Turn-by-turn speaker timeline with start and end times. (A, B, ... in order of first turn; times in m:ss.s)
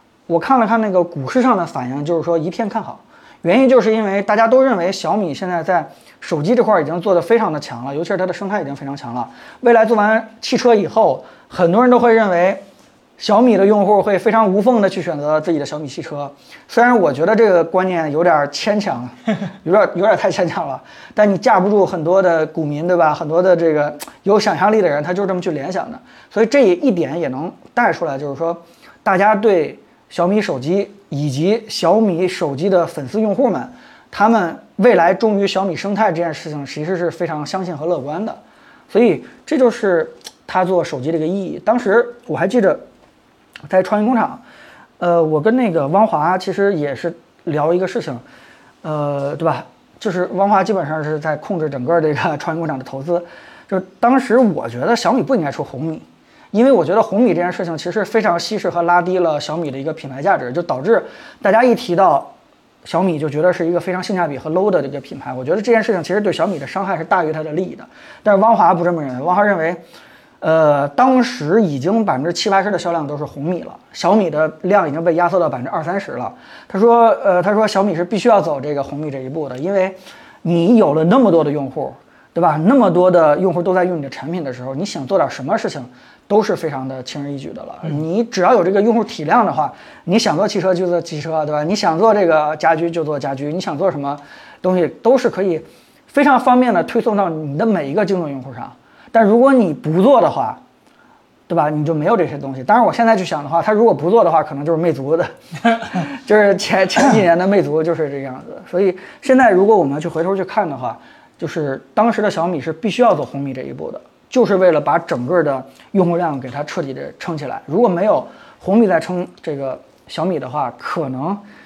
0:00.3-0:12.6 A
0:13.2-0:42.8 A
0:43.7-0:44.4 A
0:45.0-0:48.2 A
0:48.8-1:09.8 A
1:10.4-1:40.6 A
1:41.5-2:01.4 A